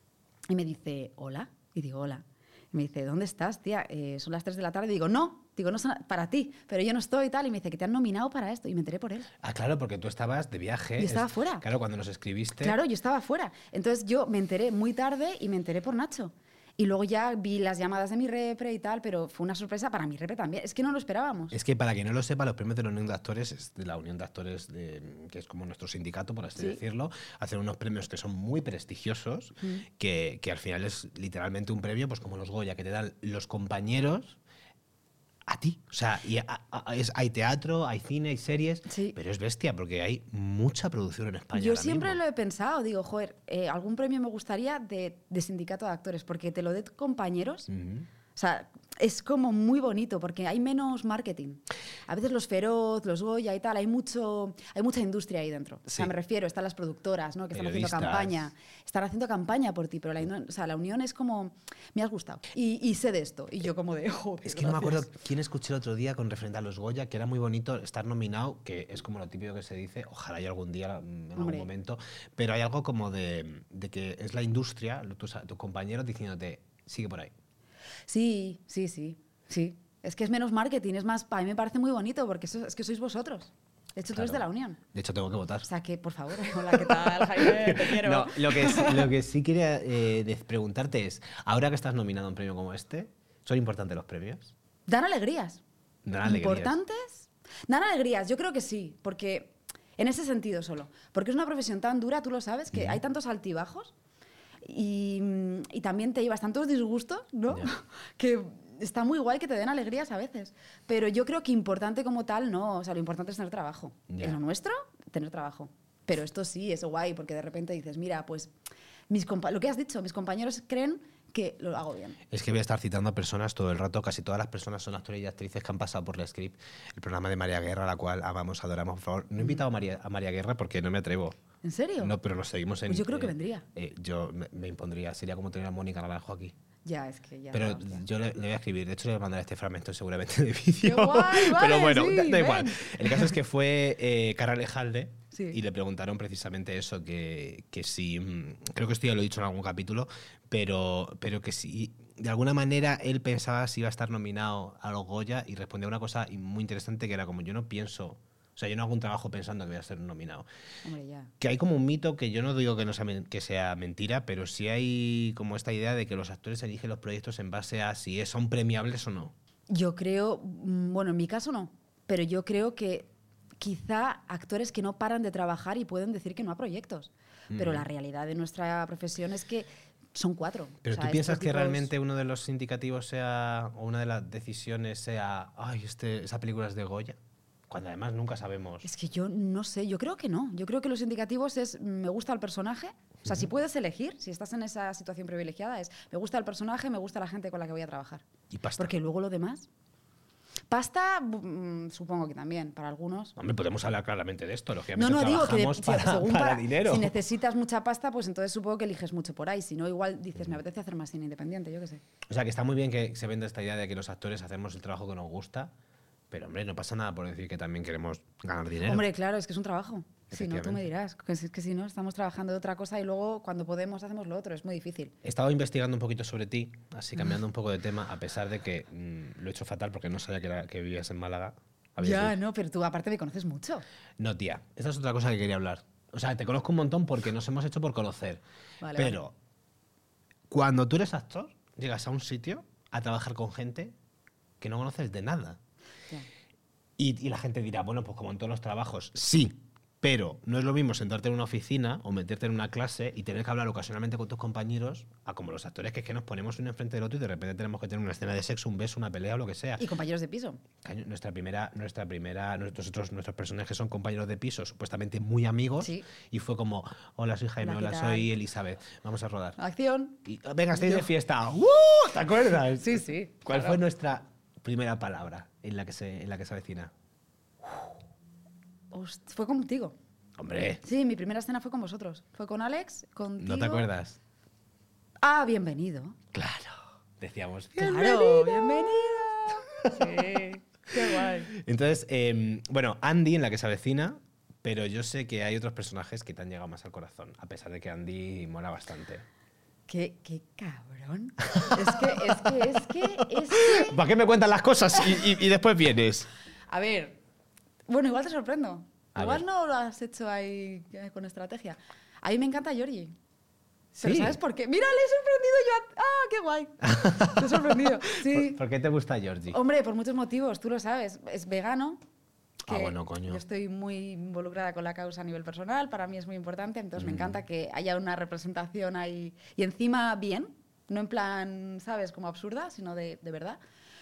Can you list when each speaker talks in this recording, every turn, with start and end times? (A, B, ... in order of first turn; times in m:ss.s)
0:00.5-0:09.3 A
0:09.4-0:12.8 B
0:11.0-0:11.6 A
0:12.6-0:21.6 A
0:21.5-0:34.4 B
0:35.4-0:42.2 B
0:38.9-0:39.2 A
0:41.5-0:47.7 A
0:47.7-0:48.1 B
0:48.3-1:05.1 A
0:57.5-0:58.5 B
1:04.4-1:17.3 B
1:11.4-1:11.7 A
1:18.1-1:24.8 A
1:24.1-1:25.7 B
1:25.6-1:29.1 A
1:26.7-1:34.5 B
1:34.9-1:35.6 A
1:36.0-1:36.8 B
1:36.2-1:43.9 A
1:42.7-1:43.0 B
1:44.6-1:58.5 A
1:54.1-1:54.4 B
1:59.1-2:02.2 A
2:02.3-2:11.4 B
2:11.6-2:12.2 A
2:12.0-2:16.5 B
2:12.9-2:13.6 A
2:16.8-2:18.0 A
2:17.5-2:40.5 B
2:20.8-2:23.3 A
2:25.3-2:25.6 A
2:40.8-2:41.3 A
2:41.4-2:49.3 B
2:49.7-2:53.1 A
2:53.6-3:01.9 A
2:57.5-2:57.8 B
3:00.8-3:07.2 B
3:07.7-3:08.9 B
3:08.8-3:18.2 A
3:18.5-3:18.9 B
3:18.8-3:19.7 A
3:20.7-3:23.4 A
3:23.4-3:27.2 B
3:25.0-3:32.0 A
3:32.3-3:35.7 B
3:36.3-3:39.0 B
3:38.8-3:45.1 A
3:40.3-3:40.9 B
3:45.2-3:52.4 B
3:52.0-3:53.8 A
3:54.2-3:58.4 B
3:58.8-3:59.2 A
3:58.9-3:59.3 B
4:00.5-4:03.9 B
4:04.6-4:05.6 B
4:07.0-4:19.8 B
4:19.8-4:20.6 A
4:20.8-4:29.6 B
4:25.8-4:26.1 A
4:27.6-4:28.3 A
4:29.6-4:30.2 A
4:30.2-4:36.9 B
4:30.7-4:31.1 A
4:32.8-4:33.8 A
4:38.9-4:39.9 A
4:40.4-4:40.8 B
4:40.8-4:43.9 A
4:43.4-4:44.2 B
4:45.2-4:46.2 A
4:46.3-4:50.4 B
4:47.8-4:51.5 A
4:51.0-4:59.2 B
4:59.9-5:04.0 A
5:01.5-5:06.3 B
5:06.7-5:07.2 A
5:07.9-5:13.1 A
5:09.1-5:09.4 B
5:13.9-5:18.6 A
5:14.0-5:14.4 B
5:16.8-5:19.6 B
5:19.5-5:22.0 A
5:22.7-5:23.4 B
5:22.7-5:33.6 A
5:27.0-5:27.4 B